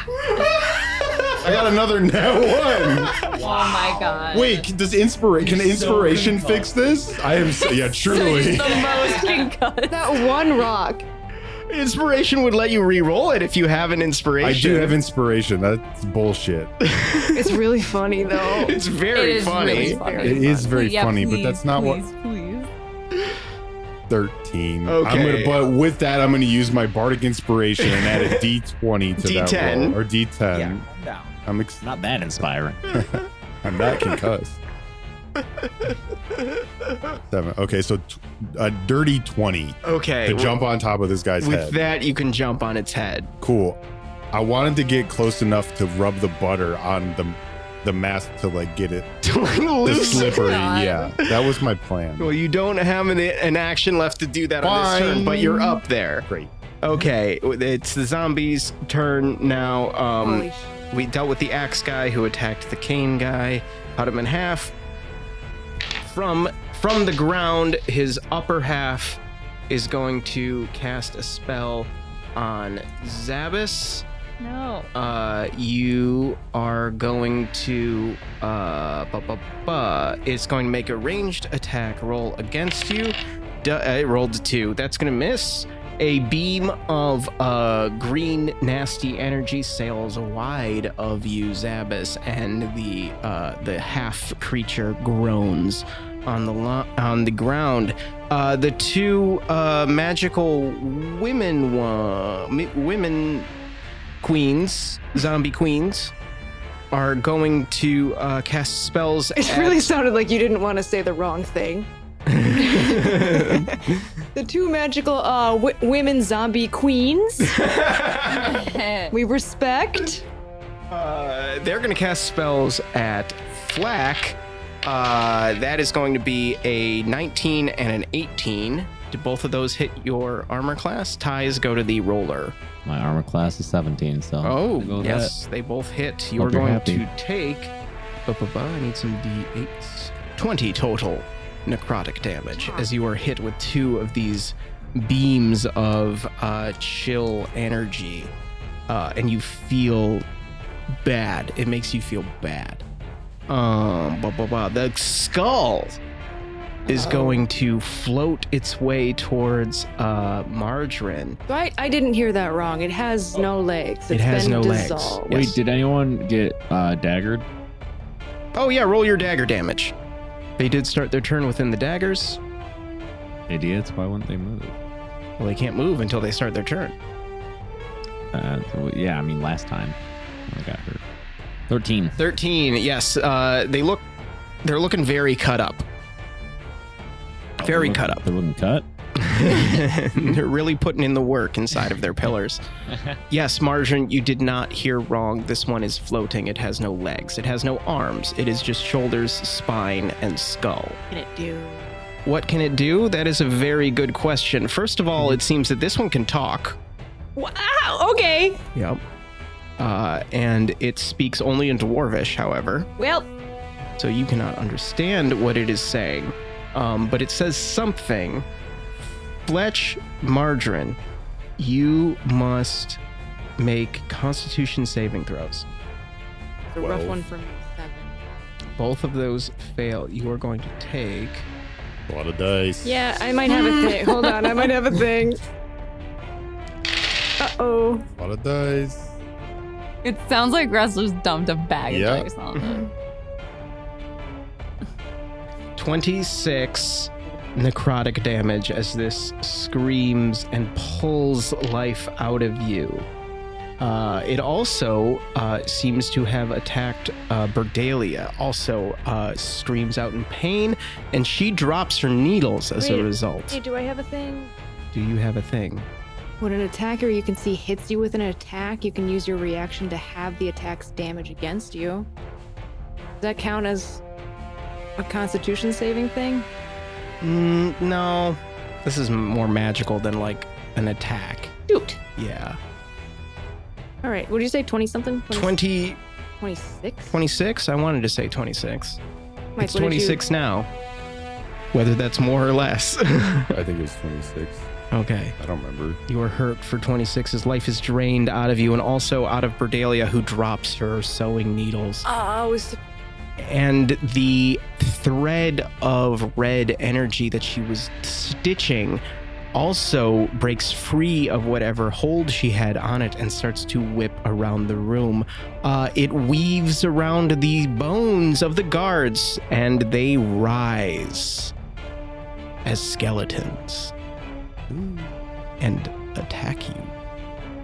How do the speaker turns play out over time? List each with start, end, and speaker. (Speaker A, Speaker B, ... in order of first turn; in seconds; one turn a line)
Speaker A: 1.4-3.2
Speaker B: 3.2-4.3
Speaker C: 3.3-4.7
Speaker A: 4.3-8.9
Speaker B: 5.4-6.8
Speaker C: 7.8-10.3
Speaker B: 8.9-9.3
Speaker D: 9.9-11.1
Speaker E: 11.7-15.0
Speaker A: 14.4-16.7
Speaker E: 16.8-17.5
Speaker D: 17.4-18.8
Speaker E: 18.3-20.6
Speaker C: 19.1-22.7
Speaker D: 19.4-20.5
Speaker A: 20.2-22.0
Speaker A: 24.1-30.9
Speaker E: 24.9-25.6
Speaker E: 27.8-28.4
Speaker E: 29.2-30.0
Speaker B: 30.5-32.9
Speaker A: 31.4-31.9
Speaker A: 33.0-34.6
Speaker E: 35.4-37.2
Speaker A: 37.3-41.8
Speaker E: 39.8-40.6
Speaker E: 41.4-43.3
Speaker A: 43.4-43.8
Speaker A: 44.3-49.2
Speaker E: 49.2-50.6
Speaker A: 49.8-52.3
Speaker C: 50.1-51.1
Speaker E: 52.2-56.3
Speaker A: 54.6-56.5
Speaker E: 56.8-64.7
Speaker D: 60.2-60.9
Speaker E: 66.0-74.0
Speaker C: 74.4-74.9
Speaker E: 74.9-103.5
Speaker E: 104.2-106.1
Speaker E: 106.9-109.9
Speaker D: 109.4-111.9
Speaker E: 112.3-113.7
Speaker D: 112.5-117.7
Speaker E: 117.5-118.6
Speaker C: 118.3-119.2
Speaker D: 119.1-120.2
Speaker E: 120.9-132.6
Speaker B: 132.8-135.3
Speaker E: 134.4-137.7
Speaker B: 136.4-137.1
Speaker E: 138.2-148.3
Speaker D: 142.6-142.9
Speaker E: 148.9-150.3
Speaker E: 151.0-152.8
Speaker E: 153.5-156.0
Speaker D: 156.9-157.4
Speaker E: 156.9-161.4
Speaker D: 161.5-165.6
Speaker E: 164.1-165.5
Speaker B: 165.3-167.4
Speaker E: 168.6-169.9
Speaker E: 170.6-172.4
Speaker B: 173.5-174.8
Speaker E: 175.4-176.9
Speaker B: 178.3-180.0
Speaker B: 180.5-181.0
Speaker B: 181.7-182.2
Speaker E: 182.2-184.1
Speaker E: 184.6-185.8
Speaker B: 187.6-188.8
Speaker E: 187.6-188.3
Speaker E: 189.2-192.6
Speaker B: 189.5-189.8
Speaker E: 193.3-201.0
Speaker D: 201.1-201.9
Speaker E: 202.2-206.8
Speaker D: 207.4-208.6
Speaker E: 208.7-209.0
Speaker E: 209.8-212.9
Speaker D: 213.0-213.3
Speaker E: 214.0-218.4
Speaker E: 219.4-221.0
Speaker E: 221.6-223.0
Speaker E: 223.6-225.7
Speaker D: 226.7-228.2
Speaker A: 226.8-227.2
Speaker E: 228.8-231.4
Speaker A: 232.1-233.2
Speaker D: 232.8-235.4
Speaker C: 233.5-234.5
Speaker D: 237.4-238.1
Speaker A: 238.1-239.1
Speaker C: 240.0-242.9
Speaker A: 241.9-242.3
Speaker E: 245.8-253.1
Speaker E: 253.8-263.6
Speaker D: 262.8-264.5
Speaker E: 264.9-265.9
Speaker D: 266.4-272.1
Speaker D: 273.2-274.0
Speaker D: 275.0-276.5
Speaker E: 277.2-281.5
Speaker D: 281.7-282.0
Speaker E: 282.2-282.6
Speaker D: 284.0-285.6
Speaker E: 285.3-286.0
Speaker D: 286.4-287.2
Speaker E: 287.1-289.0
Speaker D: 289.6-290.2
Speaker E: 289.6-290.7
Speaker E: 291.7-293.6
Speaker A: 293.5-294.7
Speaker E: 294.9-295.4
Speaker A: 295.4-296.0
Speaker E: 296.1-302.1
Speaker D: 302.1-302.8
Speaker E: 303.4-309.0
Speaker E: 309.5-321.5
Speaker E: 322.6-323.9
Speaker A: 324.7-325.1
Speaker E: 325.6-326.9